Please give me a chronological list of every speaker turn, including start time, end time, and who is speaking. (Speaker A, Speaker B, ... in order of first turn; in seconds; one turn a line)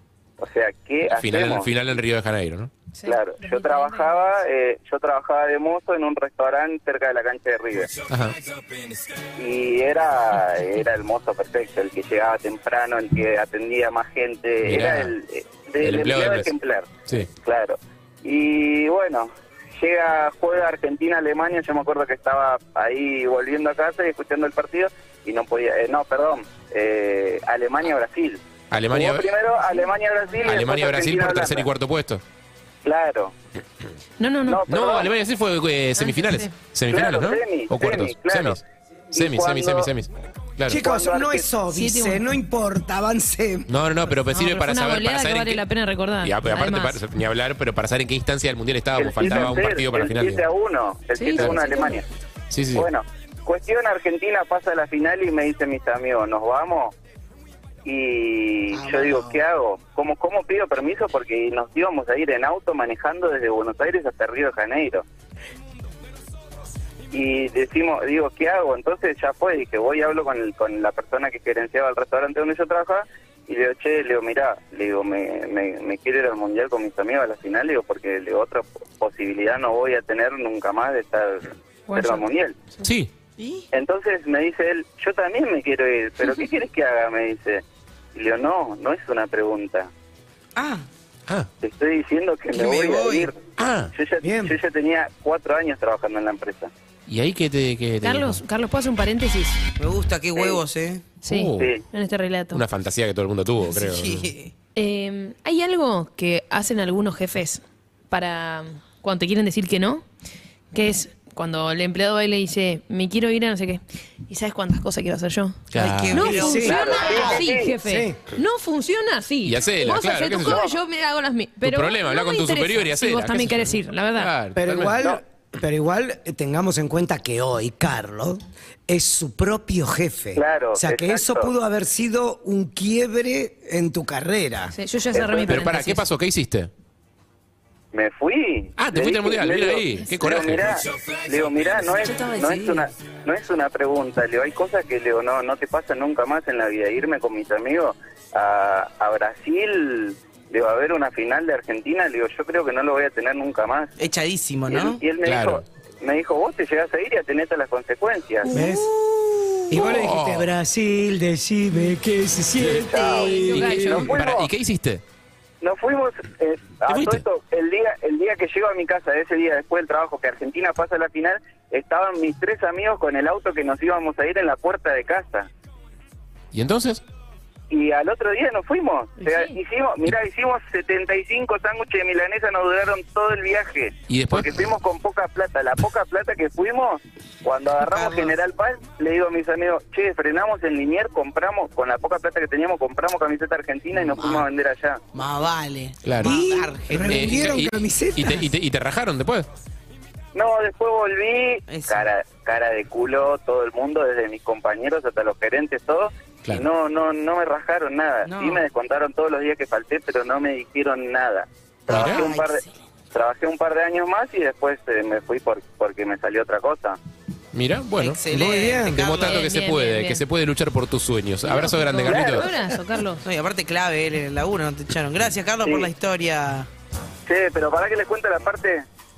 Speaker A: 0.4-1.7
Speaker B: 1.1-2.7
Speaker C: 2.9-4.1
Speaker A: 3.0-7.9
Speaker B: 8.1-8.3
Speaker A: 9.4-31.7
Speaker B: 14.6-15.1
Speaker B: 15.8-16.5
Speaker B: 28.7-29.3
Speaker B: 30.4-32.2
Speaker A: 32.9-33.4
Speaker C: 34.2-34.6
Speaker A: 34.5-35.1
Speaker B: 34.7-38.6
Speaker C: 36.0-36.5
Speaker A: 36.9-38.6
Speaker A: 39.1-39.9
Speaker B: 39.1-40.8
Speaker D: 40.7-43.7
Speaker A: 40.7-41.5
Speaker C: 41.7-42.2
Speaker B: 43.7-45.6
Speaker C: 44.3-47.0
Speaker B: 46.2-50.4
Speaker A: 49.0-52.0
Speaker C: 51.2-52.0
Speaker B: 51.4-51.6
Speaker B: 52.5-52.9
Speaker A: 52.7-57.0
Speaker A: 57.9-65.0
Speaker E: 58.7-59.4
Speaker A: 67.1-82.6
Speaker C: 81.9-82.2
Speaker B: 82.8-83.1
Speaker E: 83.4-83.7
Speaker A: 83.7-87.6
Speaker A: 88.1-89.9
Speaker E: 90.6-90.8
Speaker A: 91.6-93.4
Speaker E: 92.5-93.3
Speaker B: 93.6-93.9
Speaker A: 93.9-96.7
Speaker D: 94.2-94.5
Speaker B: 97.1-98.4
Speaker C: 98.0-99.6
Speaker E: 99.8-101.1
Speaker A: 100.4-100.6
Speaker C: 101.2-102.6
Speaker B: 101.3-101.8
Speaker B: 102.5-104.3
Speaker E: 103.7-104.5
Speaker C: 104.8-110.0
Speaker C: 110.7-124.3
Speaker B: 115.7-116.3
Speaker E: 115.8-117.4
Speaker D: 116.2-117.0
Speaker A: 116.6-117.8
Speaker D: 117.8-118.2
Speaker B: 119.5-120.7
Speaker A: 120.4-120.7
Speaker B: 121.6-125.0
Speaker D: 124.6-134.8
Speaker A: 130.3-131.5
Speaker C: 134.7-136.0
Speaker A: 135.1-135.5
Speaker B: 135.4-136.7
Speaker A: 137.9-153.9
Speaker B: 138.8-140.8
Speaker E: 142.0-142.9
Speaker E: 154.0-155.0
Speaker A: 154.7-158.5
Speaker B: 155.2-155.6
Speaker E: 158.5-159.9
Speaker D: 158.5-158.9
Speaker D: 159.7-164.1
Speaker B: 159.8-160.5
Speaker A: 162.6-163.3
Speaker C: 163.1-164.1
Speaker B: 163.5-165.0
Speaker A: 163.9-164.5
Speaker A: 165.6-175.5
Speaker B: 166.9-167.2
Speaker B: 176.5-177.0
Speaker A: 177.7-195.0
Speaker C: 179.2-179.6
Speaker B: 184.1-184.7
Speaker E: 187.8-188.4
Speaker E: 194.0-194.5
Speaker E: 195.2-197.5
Speaker B: 196.1-196.4
Speaker D: 196.2-198.5
Speaker B: 196.9-199.5
Speaker A: 200.3-217.0
Speaker E: 201.7-202.1
Speaker E: 208.3-208.7
Speaker B: 211.9-212.3
Speaker E: 211.9-212.7
Speaker B: 217.5-218.2
Speaker E: 218.0-219.5
Speaker D: 218.3-219.1
Speaker B: 218.9-222.5
Speaker C: 219.3-220.2
Speaker C: 221.6-223.2
Speaker A: 222.1-222.4
Speaker E: 223.2-226.7
Speaker A: 225.6-225.9
Speaker A: 227.3-228.9